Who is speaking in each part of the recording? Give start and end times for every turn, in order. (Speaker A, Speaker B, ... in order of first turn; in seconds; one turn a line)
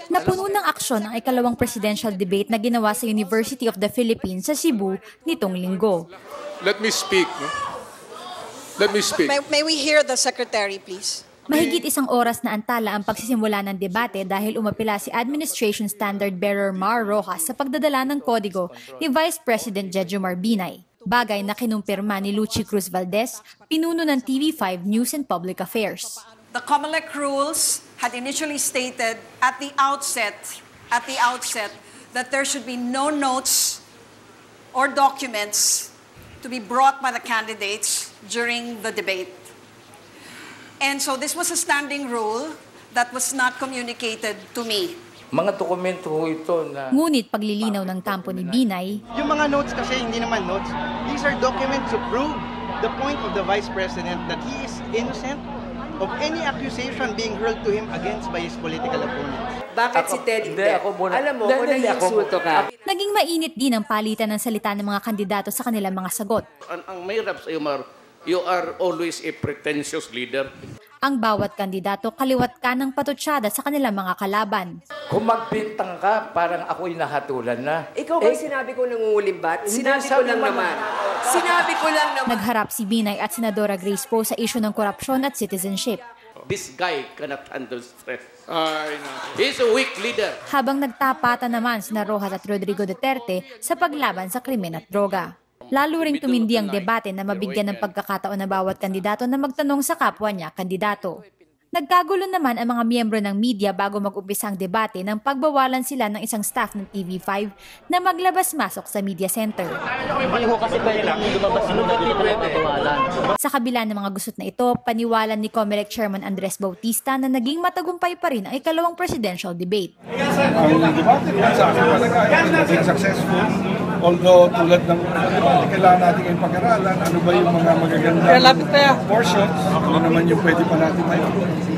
Speaker A: 0.1-6.0
Speaker B: 6.6-7.5
Speaker B: 8.8-9.4
Speaker C: 9.1-11.7
Speaker A: 11.5-26.2
Speaker C: 26.5-33.8
Speaker C: 34.7-39.4
Speaker C: 40.8-45.0
Speaker D: 45.3-47.0
Speaker A: 46.9-49.0
Speaker E: 49.1-55.4
Speaker E: 56.0-59.5
Speaker D: 59.8-62.7
Speaker F: 59.9-62.7
Speaker A: 62.9-66.4
Speaker G: 66.7-70.5
Speaker A: 71.0-74.8
Speaker D: 75.1-78.7
Speaker F: 78.2-82.4
Speaker D: 79.6-81.8
Speaker A: 82.3-86.0
Speaker G: 86.5-88.3
Speaker B: 88.5-89.3
Speaker G: 89.4-90.4
Speaker A: 90.5-101.2
Speaker G: 95.8-97.9
Speaker A: 101.8-109.8
Speaker G: 110.4-113.0
Speaker A: 113.4-119.9
Speaker H: 120.6-131.5